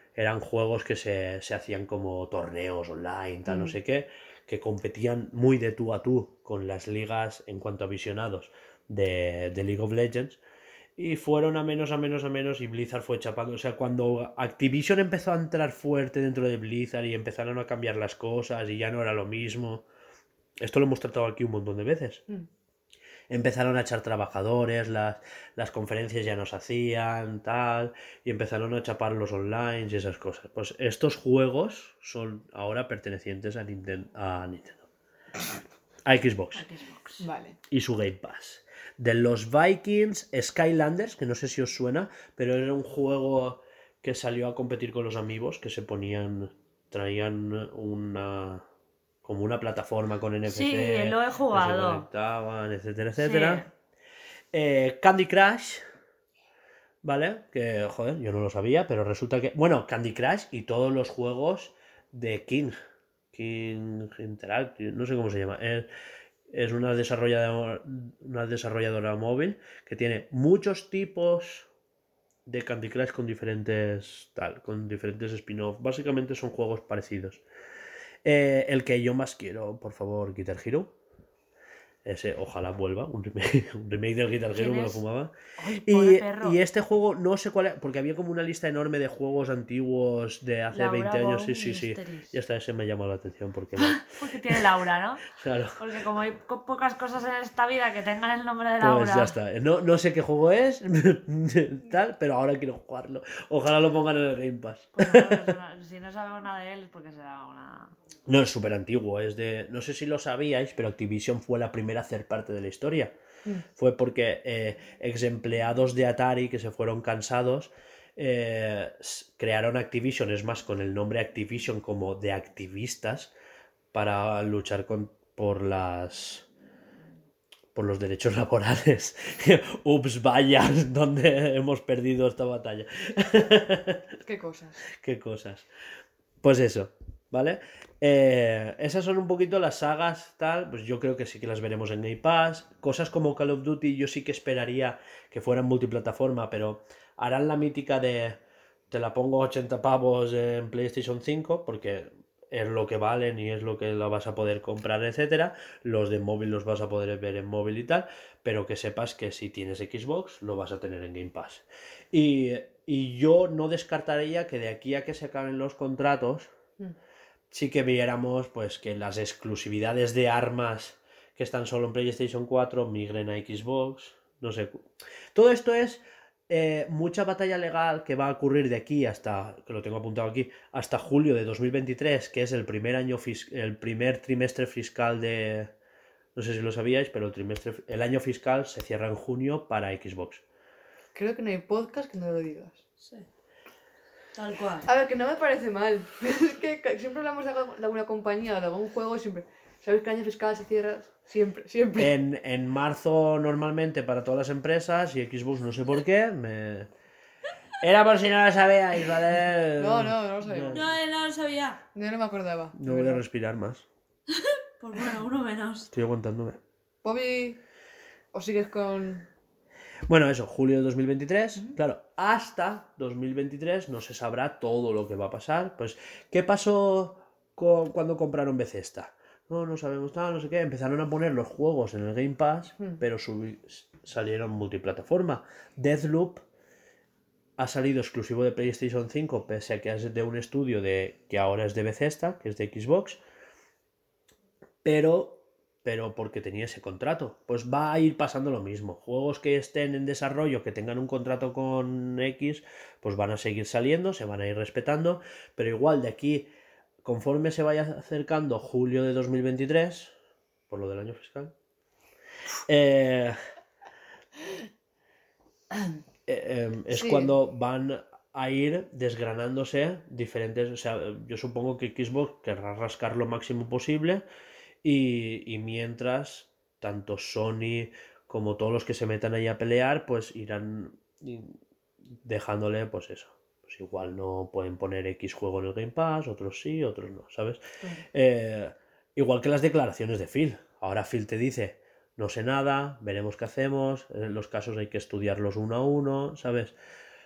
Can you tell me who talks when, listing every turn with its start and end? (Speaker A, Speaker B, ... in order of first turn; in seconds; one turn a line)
Speaker A: 0.2-10.4
Speaker B: 3.5-3.8
Speaker A: 11.0-19.9
Speaker A: 20.6-22.2
Speaker A: 23.3-34.8
Speaker A: 36.0-36.7
Speaker C: 36.6-37.2
Speaker B: 37.2-37.6
Speaker A: 37.7-48.6
Speaker A: 49.2-53.6
Speaker C: 50.5-52.1
Speaker C: 53.2-53.7
Speaker A: 54.5-55.8
Speaker A: 57.0-62.8
Speaker A: 63.3-65.9
Speaker A: 66.5-71.7
Speaker A: 72.5-77.4
Speaker A: 78.2-80.9
Speaker A: 82.0-85.3
Speaker C: 84.5-85.0
Speaker C: 85.6-86.6
Speaker A: 85.8-94.7
Speaker C: 90.7-92.4
Speaker C: 93.8-95.3
Speaker A: 95.2-95.8
Speaker C: 95.8-99.4
Speaker A: 98.8-105.5
Speaker C: 105.0-107.9
Speaker A: 108.3-113.1
Speaker A: 113.8-123.3
Speaker A: 123.9-126.5
Speaker A: 127.7-134.1
Speaker B: 134.2-134.9
Speaker A: 134.9-135.7
Speaker A: 136.4-166.5
Speaker A: 167.5-185.7
Speaker A: 186.3-190.4
Speaker B: 191.2-192.8
Speaker C: 193.0-193.3
Speaker C: 194.4-194.9
Speaker B: 194.9-202.2
Speaker A: 202.0-206.9
Speaker A: 207.8-210.8
Speaker B: 209.8-210.8
Speaker C: 210.7-211.8
Speaker B: 211.9-213.2
Speaker A: 212.8-213.8
Speaker C: 214.3-215.9
Speaker A: 215.9-216.6
Speaker B: 217.0-217.6
Speaker B: 218.3-219.3
Speaker A: 220.1-236.4
Speaker A: 237.6-243.2
Speaker A: 244.8-256.5
Speaker A: 257.0-260.1
Speaker A: 260.7-261.5
Speaker A: 262.7-263.4
Speaker A: 266.3-274.2
Speaker B: 266.9-267.4
Speaker A: 274.8-281.6
Speaker A: 282.2-287.6
Speaker A: 288.1-296.7